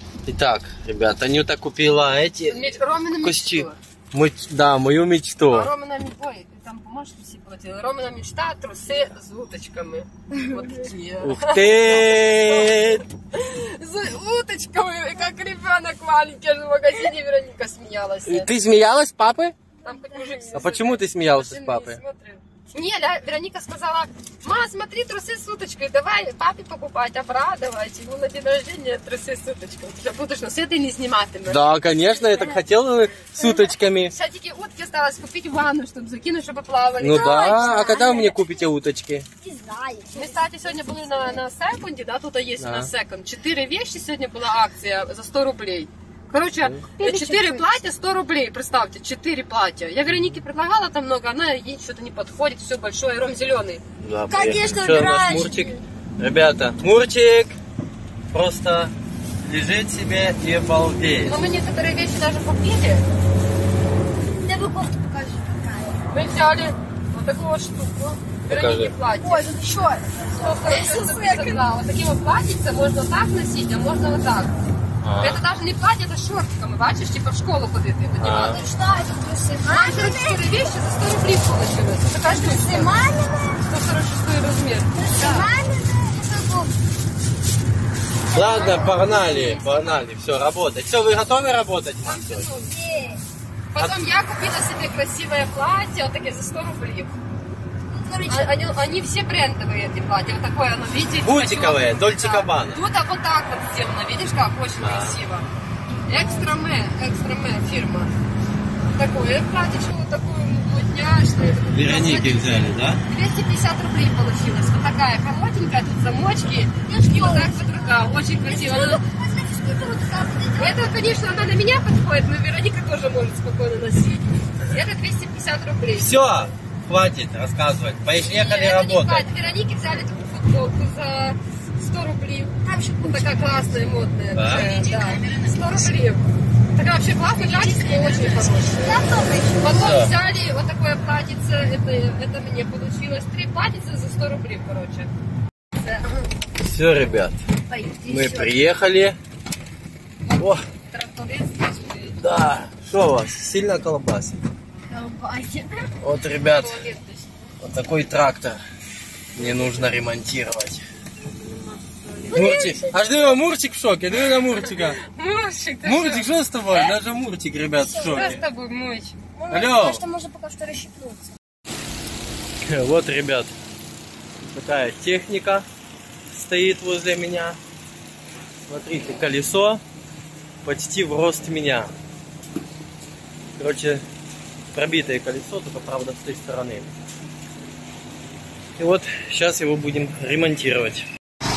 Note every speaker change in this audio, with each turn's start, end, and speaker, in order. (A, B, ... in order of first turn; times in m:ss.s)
0:00.2-0:02.6 A
0:02.5-0:03.8 B
0:03.2-0:05.7 A
0:05.4-0:18.6 B
0:11.2-0:13.0 A
0:18.2-0:19.5 A
0:19.8-0:31.7 B
0:19.9-0:20.5 C
0:20.5-0:22.0 A
0:31.5-0:34.1 A
0:33.4-0:37.9 B
0:37.0-0:39.3 A
0:37.4-0:38.6 C
0:39.4-0:41.4 C
0:40.1-0:53.8 B
0:42.6-0:42.9 A
0:47.0-0:47.7 C
0:54.0-0:57.6 A
0:54.3-0:55.8 C
0:58.3-1:01.4 A
1:01.2-1:03.0 B
1:04.4-1:06.0 C
1:06.1-1:09.5 B
1:08.5-1:08.9 A
1:09.2-1:11.6 C
1:10.4-1:14.6 B
1:15.0-1:15.4 A
1:15.2-1:18.7 B
1:18.2-1:18.6 A
1:18.4-1:20.7 C
1:19.7-1:23.1 B
1:22.2-1:23.7 C
1:23.6-1:25.5 B
1:24.9-1:26.7 C
1:28.3-1:32.5 A
1:28.3-1:29.8 C
1:28.9-1:29.5 B
1:32.0-1:32.7 B
1:32.4-1:33.2 C
1:33.7-1:37.2 B
1:37.9-1:38.7 C
1:38.3-1:45.5 B
1:41.2-1:42.8 A
1:44.8-1:45.2 A
1:46.0-1:48.1 B
1:46.1-1:46.6 C
1:48.9-1:59.0 B
1:51.7-1:53.0 A
1:56.8-2:01.5 C
2:00.6-2:06.1 B
2:05.9-2:09.3 A
2:08.2-2:19.0 B
2:12.6-2:15.9 C
2:14.3-2:14.7 A
2:17.3-2:19.8 C
2:19.6-2:25.1 B
2:19.8-2:20.1 A
2:26.6-2:27.4 A
2:27.7-2:28.6 C
2:28.0-2:29.2 A
2:30.2-2:32.2 B
2:30.4-2:30.6 A
2:32.2-2:34.4 A
2:34.9-2:35.9 C
2:36.0-2:36.8 A
2:36.5-2:37.3 B
2:37.6-2:38.6 A
2:39.4-2:40.8 A
2:41.3-2:42.7 B
2:42.3-2:43.0 C
2:42.3-2:45.0 A
2:44.7-2:46.3 B
2:45.8-2:48.4 A
2:47.8-2:48.3 C
2:48.0-2:49.2 B
2:49.4-2:51.4 C
2:49.5-2:50.0 A
2:52.6-2:53.5 A
2:54.4-2:55.6 A
2:56.3-2:57.6 A
2:58.7-2:59.8 A
3:00.6-3:01.9 A
3:03.6-3:04.0 A
3:04.7-3:06.9 A
3:08.8-3:11.1 A